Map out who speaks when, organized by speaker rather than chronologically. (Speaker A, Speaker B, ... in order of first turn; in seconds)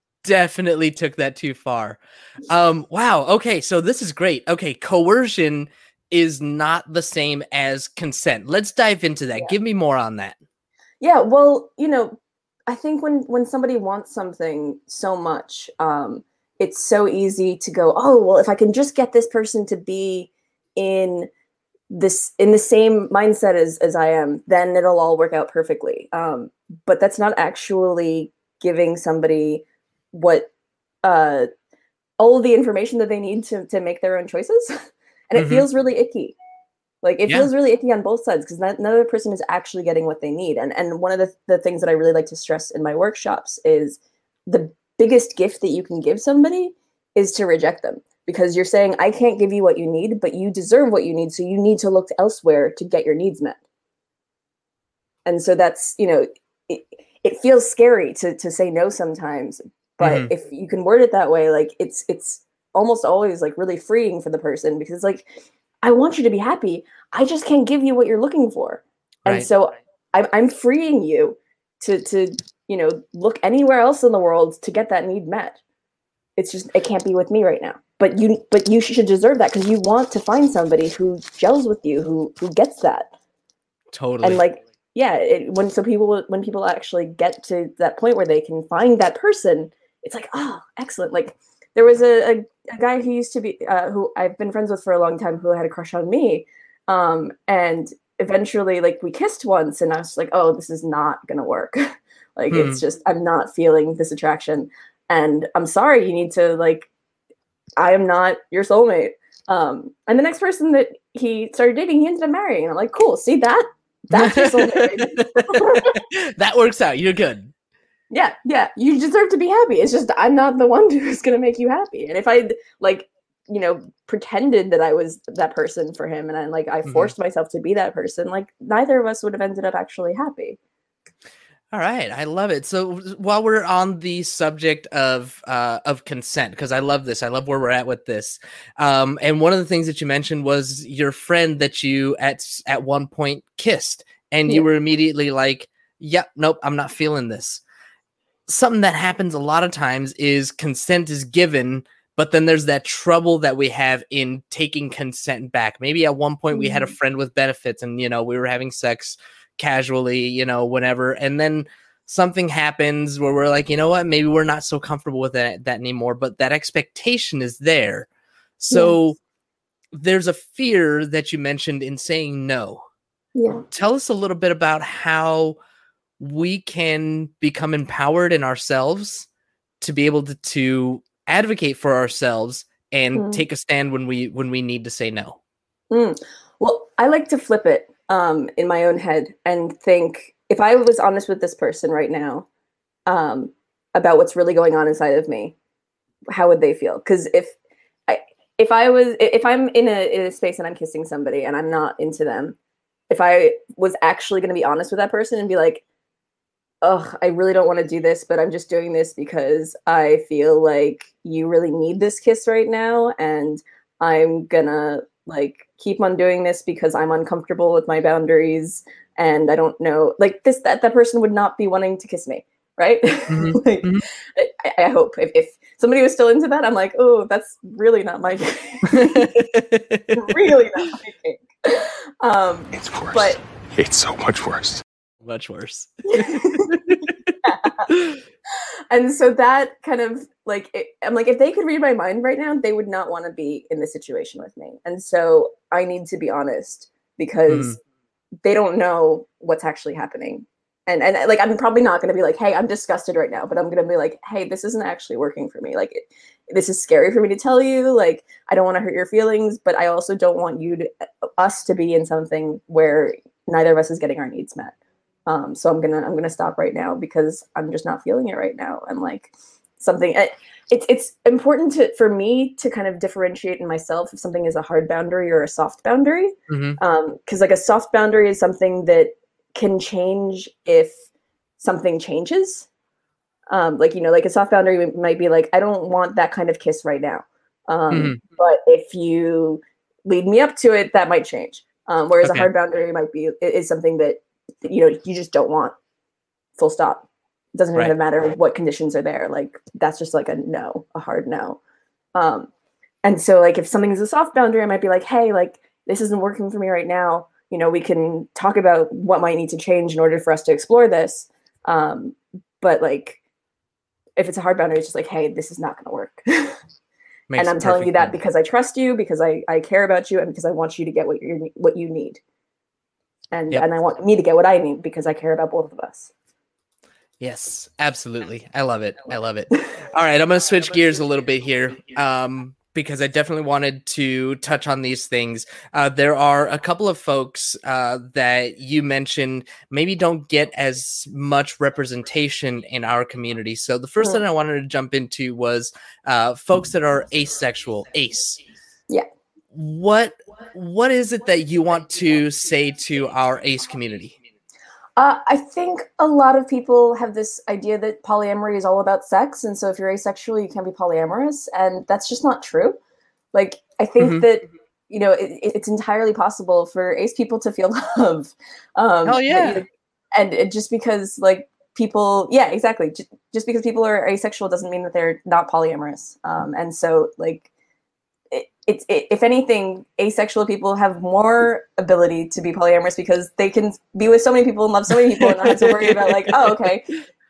Speaker A: 0.2-10.4, 35.4-35.7, 60.0-60.3, 83.9-84.4, 102.5-102.8, 114.1-117.5, 126.9-127.1, 131.7-147.6, 148.5-168.1, 168.6-169.2, 169.9-172.8, 173.7-175.6, 176.2-179.3, 179.8-185.4, 223.3-224.1, 228.9-230.3, 235.2-237.3, 237.9-238.2, 247.5-247.8, 276.5-276.8, 287.9-288.2, 292.2-292.5, 317.3-318.1, 327.2-348.4, 349.5-354.2, 364.0-364.2, 369.1-369.6, 385.0-386.5
Speaker B: 11.0-21.3, 21.9-30.5, 31.0-31.5, 32.2-36.4, 37.0-53.6, 55.3-65.3, 65.8-75.6, 76.4-83.1, 84.2-106.9, 107.8-116.0, 118.1-130.6, 156.5-156.9, 168.7-169.0, 173.3-173.6, 183.1-183.4, 185.9-192.5, 193.1-195.6, 196.3-197.6, 198.1-202.6, 203.1-205.8, 206.8-229.4, 230.1-233.4, 236.1-237.9, 238.9-247.8, 248.4-264.7, 265.3-281.0, 281.6-282.7, 283.5-295.8, 296.6-301.6, 302.1-302.5, 303.0-313.2, 314.2-316.6, 317.4-322.2, 323.3-326.1, 355.0-362.8, 363.3-377.5, 378.3-386.9
Speaker C: 232.7-234.8